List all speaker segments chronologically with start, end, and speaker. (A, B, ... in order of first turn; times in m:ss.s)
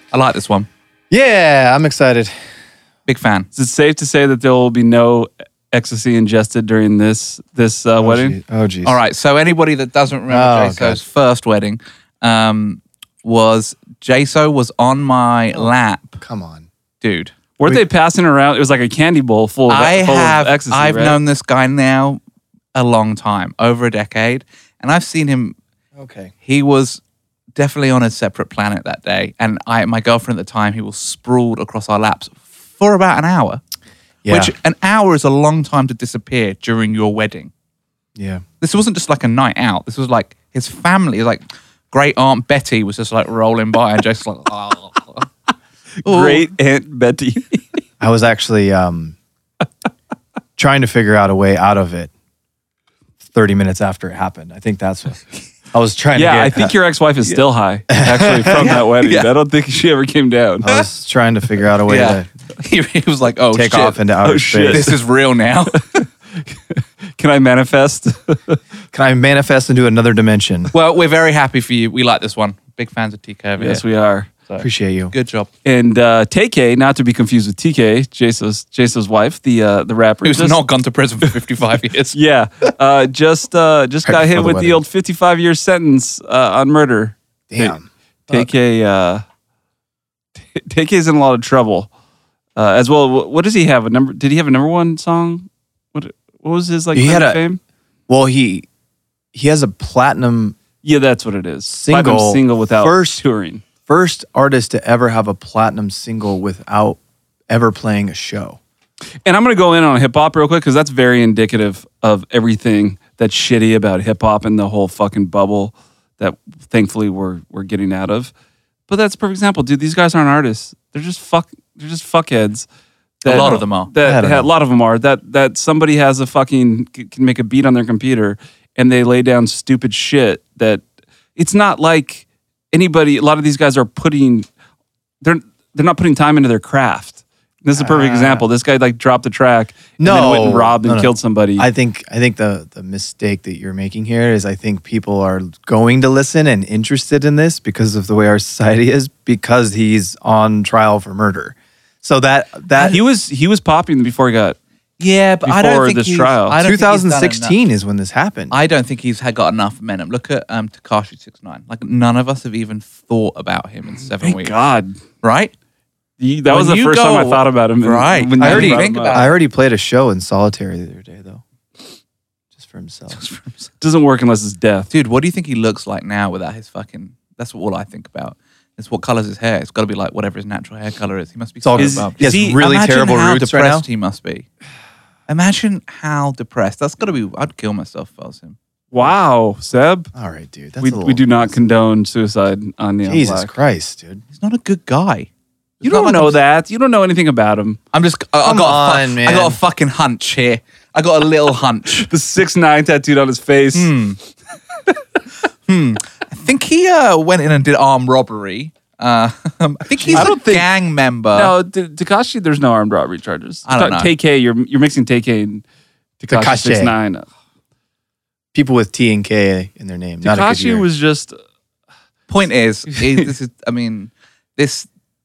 0:00.1-0:00.7 A
0:01.1-0:02.3 B
0:03.1-0:03.5 A
0:03.6-0:08.4 C
0:08.0-0:09.0 B
0:08.8-0:16.2 A
0:10.3-0:11.0 B
0:16.2-0:16.7 B
0:17.0-0:17.3 A
0:17.6-0:21.2 C
0:19.7-0:22.2 A
0:22.8-0:25.6 A
0:26.0-0:26.3 B
0:26.4-0:27.0 A
0:27.6-0:33.6 A
0:34.2-0:34.5 B
0:34.3-0:37.5 A
0:38.2-0:38.4 B
0:38.6-0:45.3 A
0:46.0-0:47.6 C
0:46.1-0:46.5 A
0:48.0-0:49.2 B
0:50.6-0:52.1 B
0:53.2-0:56.8 B
0:56.2-1:00.7 C
0:57.9-0:58.8 B
0:58.5-0:59.3 A
1:00.6-1:02.3 B
1:01.9-1:04.0 A
1:03.5-1:04.9 B
1:04.2-1:04.9 C
1:04.7-1:05.8 A
1:05.7-1:08.6 C
1:08.9-1:10.7 B
1:10.7-1:13.8 A
1:13.6-1:14.3 C
1:14.5-1:15.5 A
1:14.6-1:15.1 B
1:15.6-1:20.6 C
1:20.2-1:22.2 A
1:22.1-1:27.8 C
1:24.1-1:24.8 B
1:27.5-1:28.5 B
1:28.3-1:29.2 C
1:30.4-1:31.9 C
1:32.6-1:37.6 C
1:36.9-1:37.4 B
1:38.1-1:38.7 B
1:39.3-1:40.6 B
1:40.8-1:43.6 C
1:41.7-1:43.2 B
1:43.9-1:48.6 B
1:49.2-1:58.3 C
1:58.9-2:02.7 C
2:03.2-2:10.8 C
2:03.2-2:03.9 A
2:03.5-2:04.5 B
2:11.4-2:14.5 C
2:15.2-2:21.7 C
2:17.8-2:18.5 B
2:20.0-2:33.0 B
2:32.8-2:34.6 C
2:35.0-2:37.6 A
2:35.4-2:36.6 C
2:36.6-2:38.5 B
2:38.5-2:44.5 A
2:44.2-2:45.0 C
2:45.2-2:45.5 A
2:46.2-2:49.2 C
2:46.5-2:49.4 A
2:48.4-2:51.4 B
2:52.6-2:53.2 B
2:53.1-2:53.7 A
2:53.8-2:54.9 C
2:54.9-3:04.5 A
3:01.6-3:03.9 B
3:01.8-3:02.6 C
3:05.3-3:08.6 A
3:08.9-3:10.1 C
3:10.1-3:11.6 B
3:10.8-3:13.5 C
3:13.1-3:14.2 B
3:14.4-3:15.3 A
3:15.8-3:16.4 A
3:15.8-3:17.8 C
3:17.9-3:22.1 A
3:18.4-3:19.6 B
3:22.0-3:23.9 C
3:23.7-3:24.2 A
3:25.7-3:31.5 A
3:30.0-3:30.3 B
3:30.1-3:30.7 C
3:31.3-3:35.6 C
3:33.7-3:34.1 A
3:36.2-3:37.3 C
3:36.3-3:36.9 B
3:38.5-3:40.9 B
3:40.2-3:41.4 C
3:42.3-3:44.9 A